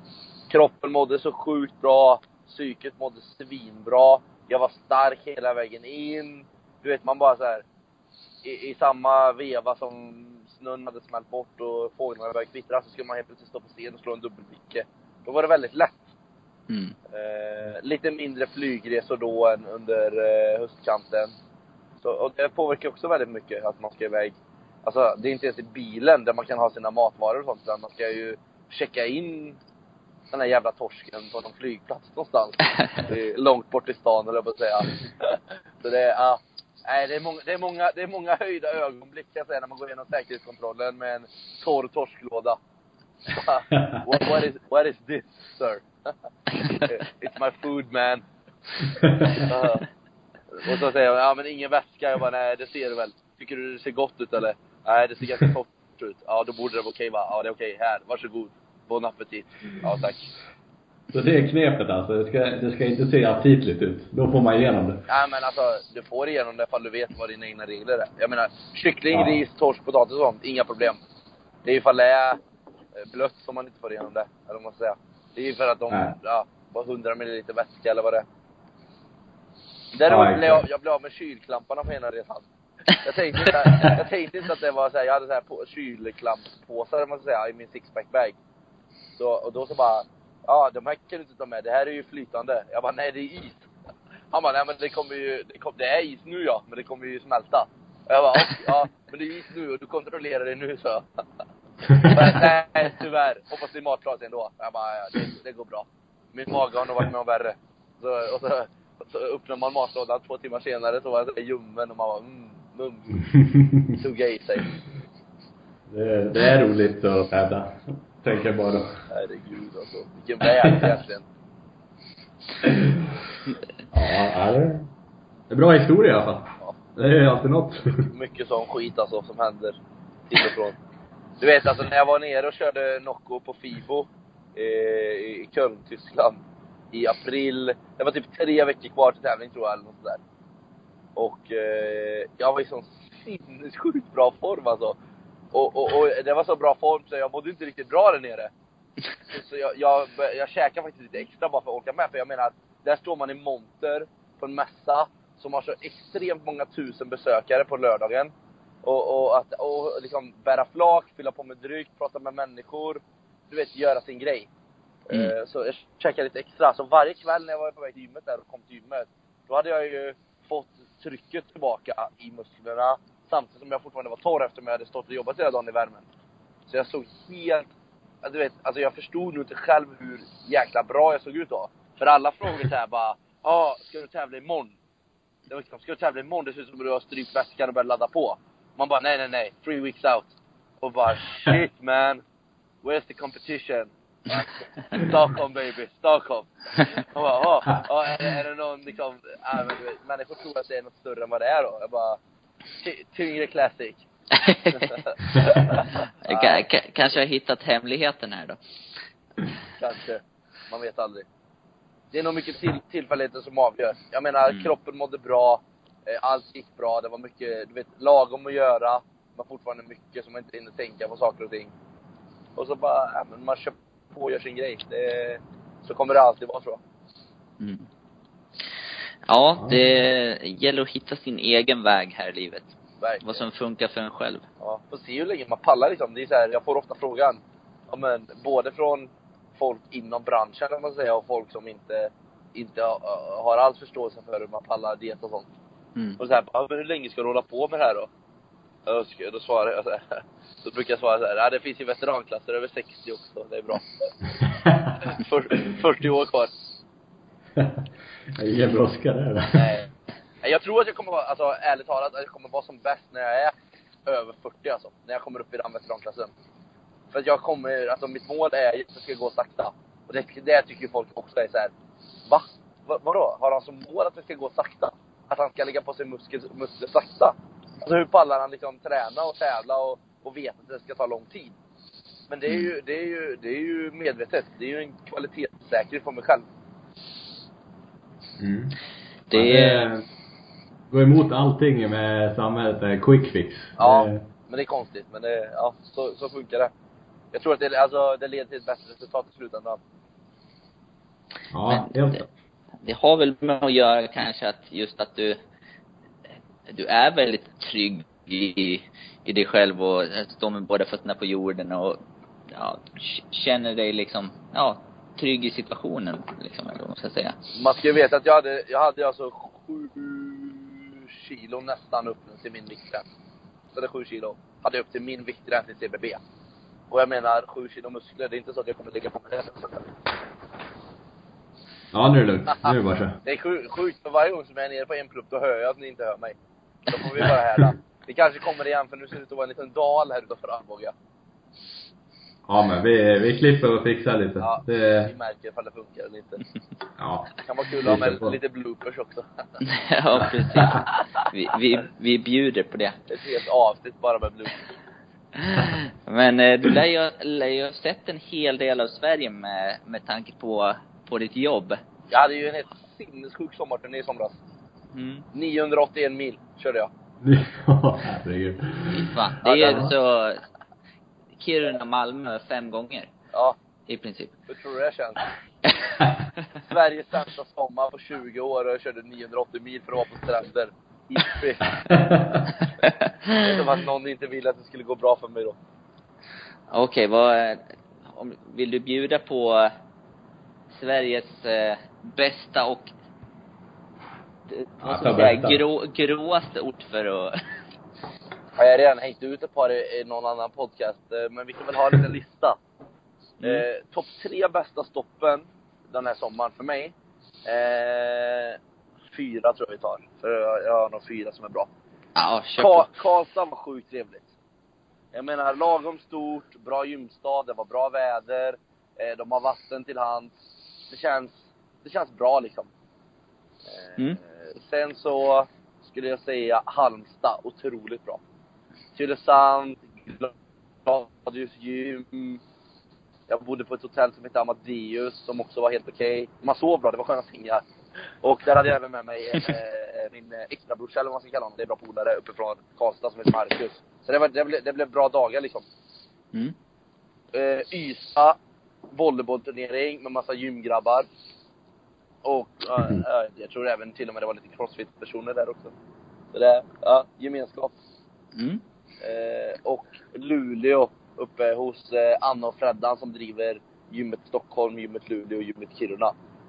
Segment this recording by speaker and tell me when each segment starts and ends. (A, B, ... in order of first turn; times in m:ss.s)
0:00.5-0:07.6 A
0:08.4-0:16.1 A
0:16.7-0:17.0 B
0:17.1-0:21.3 A
0:22.0-0:29.6 A
0:30.3-0:42.6 A
0:43.3-0:46.1 A
0:43.7-0:44.0 C
0:46.6-0:48.2 A
0:49.0-0:49.5 C
0:49.3-0:49.8 A
0:50.5-1:00.3 A
1:01.1-1:05.0 C
1:05.1-1:11.0 A
1:09.1-1:09.4 C
1:11.6-1:12.4 A
1:13.0-1:18.2 A
1:15.9-1:16.1 C
1:19.9-1:28.4 A
1:20.1-1:20.6 C
1:29.2-1:33.7 A
1:34.3-1:41.0 A
1:42.0-1:53.2 A
1:53.4-1:54.0 C
1:53.9-1:54.8 A
1:55.9-1:58.9 C
1:59.1-2:01.2 A
2:00.6-2:00.9 C
2:02.6-2:03.1 C
2:03.9-2:04.9 C
2:05.5-2:08.1 C
2:08.1-2:09.8 A
2:10.3-2:10.8 A
2:11.4-2:20.2 A
2:21.2-2:25.0 A
2:25.5-2:28.5 A
2:29.3-2:38.3 A
2:38.8-2:44.5 A
2:45.1-2:56.0 A
2:56.7-2:57.7 A
2:58.2-3:04.7 A
3:05.5-3:12.2 A
3:12.8-3:22.2 A
3:22.8-3:24.0 A
3:24.4-3:25.0 B
3:24.6-3:26.6 A
3:26.2-3:28.6 B
3:29.8-3:31.2 A
3:32.1-3:41.7 A
3:42.6-3:46.8 A
3:47.6-3:47.9 B
3:49.3-3:54.4 B
3:53.0-3:53.4 A
3:54.6-4:05.5 A
4:06.2-4:08.1 A
4:08.8-4:14.1 A
4:14.6-4:14.9 C
4:15.0-4:16.5 A
4:17.6-4:19.7 C
4:19.6-4:19.8 A
4:20.4-4:23.5 A
4:24.0-4:26.3 A
4:27.1-4:31.7 A
4:32.3-4:41.5 A
4:42.3-4:46.4 A
4:48.4-4:48.8 C
4:49.3-4:49.9 B
4:49.3-4:50.0 C
4:50.9-4:54.2 C
4:53.8-4:56.7 A
4:57.3-4:59.8 A
5:01.5-5:02.2 C
5:01.7-5:02.2 B
5:02.8-5:05.4 B
5:06.7-5:17.4 B
5:17.5-5:23.0 A
5:23.7-5:26.2 A
5:26.9-5:29.9 A
5:31.9-5:33.2 C
5:33.2-5:36.4 A
5:36.9-5:40.9 A
5:37.2-5:37.6 C
5:42.5-5:45.1 C
5:44.4-5:46.4 A
5:47.0-5:47.3 C
5:47.4-5:49.4 A
5:47.8-5:48.4 C
5:49.6-5:53.0 B
5:50.5-5:50.8 C
5:53.1-5:54.6 A
5:55.4-6:01.8 B
6:02.1-6:04.4 A
6:04.9-6:05.2 B
6:05.3-6:06.9 A
6:07.2-6:09.9 C
6:08.9-6:10.4 B
6:09.6-6:09.8 A
6:11.4-6:13.1 B
6:13.9-6:14.3 B
6:14.5-6:15.2 A
6:16.7-6:22.0 A
6:21.9-6:22.4 C
6:22.8-6:23.4 B
6:23.4-6:25.6 A
6:26.7-6:29.7 B
6:30.7-6:32.9 B
6:34.5-6:37.4 B
6:34.8-6:35.6 C
6:38.6-6:42.6 A
6:43.4-6:46.9 A
6:47.4-6:48.6 A
6:49.1-6:51.7 A
6:52.2-6:52.9 B
6:52.6-6:54.3 A
6:55.1-7:00.3 A
7:00.9-7:02.7 A
7:03.8-7:08.2 A
7:09.0-7:10.3 A
7:10.8-7:12.4 A
7:13.3-7:17.6 A
7:18.2-7:25.6 A
7:27.3-7:28.4 A
7:28.9-7:31.1 A
7:32.2-7:35.7 A
7:36.3-7:37.7 A
7:38.3-7:38.6 B
7:39.0-7:46.1 A